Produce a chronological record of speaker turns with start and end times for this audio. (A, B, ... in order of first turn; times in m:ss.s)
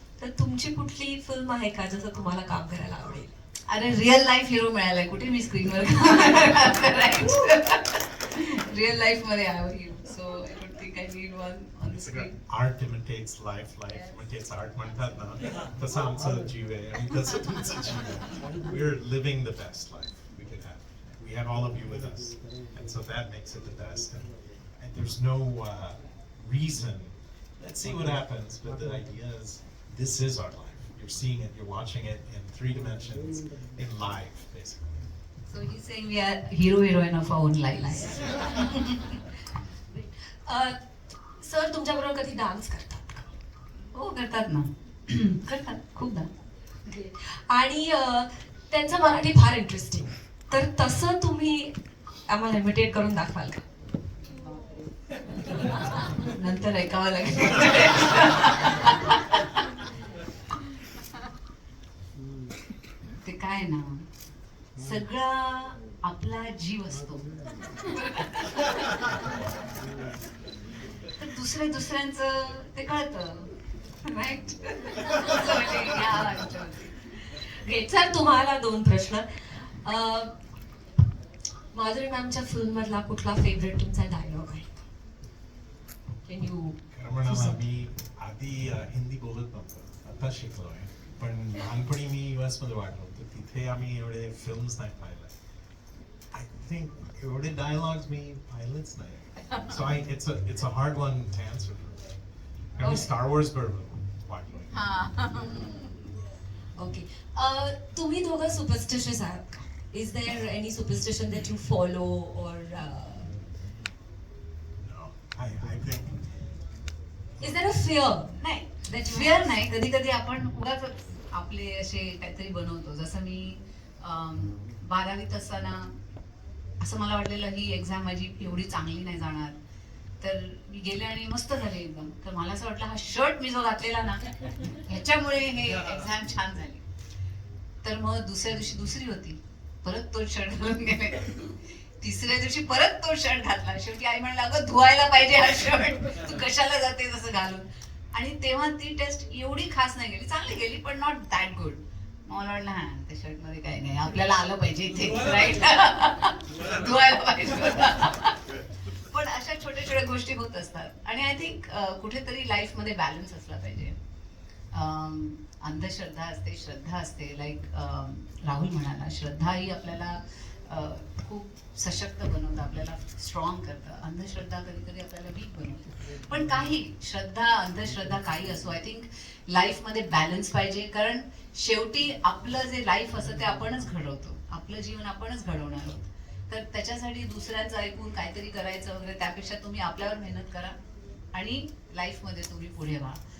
0:00.2-0:03.3 A
0:03.7-0:12.4 B
0:11.9-0:35.0 C
0:35.5-0:39.2 B
0:39.9-0:40.8 A
0:41.4-0:43.2 A
0:43.9-0:46.3 B
0:46.8-0:51.7 A
0:52.3-0:53.6 A
0:55.6-0:56.0 A
0:56.1-0:59.6 B
1:03.2-1:04.0 B
1:04.8-1:08.8 B
1:11.2-1:13.5 B
1:14.0-1:16.9 B
1:17.3-1:20.3 A
1:21.7-1:24.8 A
1:26.2-1:27.6 A
1:26.9-1:35.3 C
1:36.3-1:42.1 C
1:39.5-1:39.8 B
1:42.8-1:44.8 C
1:44.7-1:46.1 B
1:46.8-1:53.3 A
1:54.8-1:56.3 C
1:57.4-1:58.3 A
1:58.4-2:05.9 B
1:58.9-1:59.4 A
2:06.8-2:09.6 B
2:10.2-2:16.8 B
2:17.8-2:43.9 B
2:44.7-3:10.8 B
3:11.3-3:13.2 B